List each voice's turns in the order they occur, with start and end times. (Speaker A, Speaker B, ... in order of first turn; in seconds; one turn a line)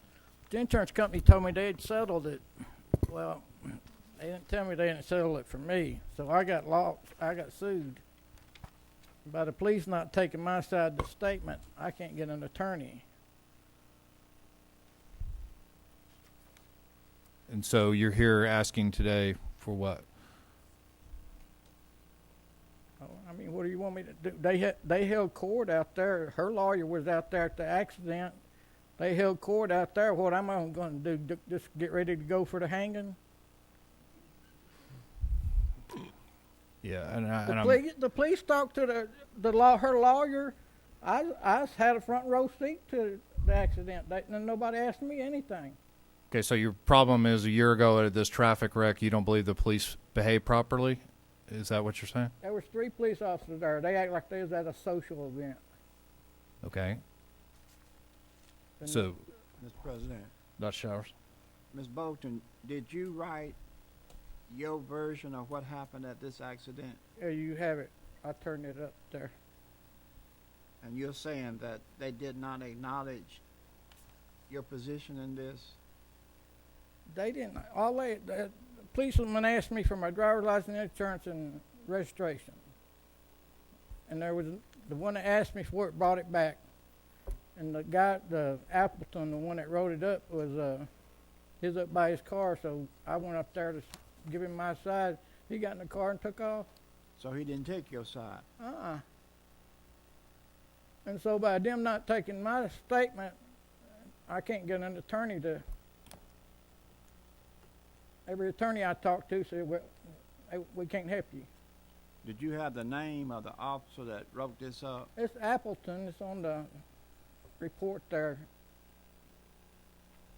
Speaker A: 0.5-8.0
Speaker A: 9.2-13.0
Speaker B: 17.5-20.0
Speaker A: 23.0-28.4
Speaker A: 29.0-33.2
Speaker B: 36.8-37.8
Speaker A: 37.5-45.8
Speaker B: 46.3-52.3
Speaker A: 52.4-55.6
Speaker B: 56.6-57.0
Speaker A: 58.8-59.1
Speaker B: 58.9-59.2
Speaker C: 59.6-60.3
Speaker B: 60.6-61.1
Speaker C: 61.7-63.6
Speaker C: 64.5-67.0
Speaker A: 67.2-69.3
Speaker C: 70.8-73.4
Speaker C: 74.5-75.8
Speaker A: 77.1-82.6
Speaker A: 84.1-86.6
Speaker A: 87.5-90.9
Speaker A: 91.6-96.7
Speaker C: 97.2-98.5
Speaker A: 98.6-99.0
Speaker A: 101.0-103.3
Speaker A: 104.3-105.6
Speaker A: 108.2-109.9
Speaker A: 110.5-111.5
Speaker C: 112.2-115.1
Speaker A: 115.2-116.7
Speaker A: 117.6-118.5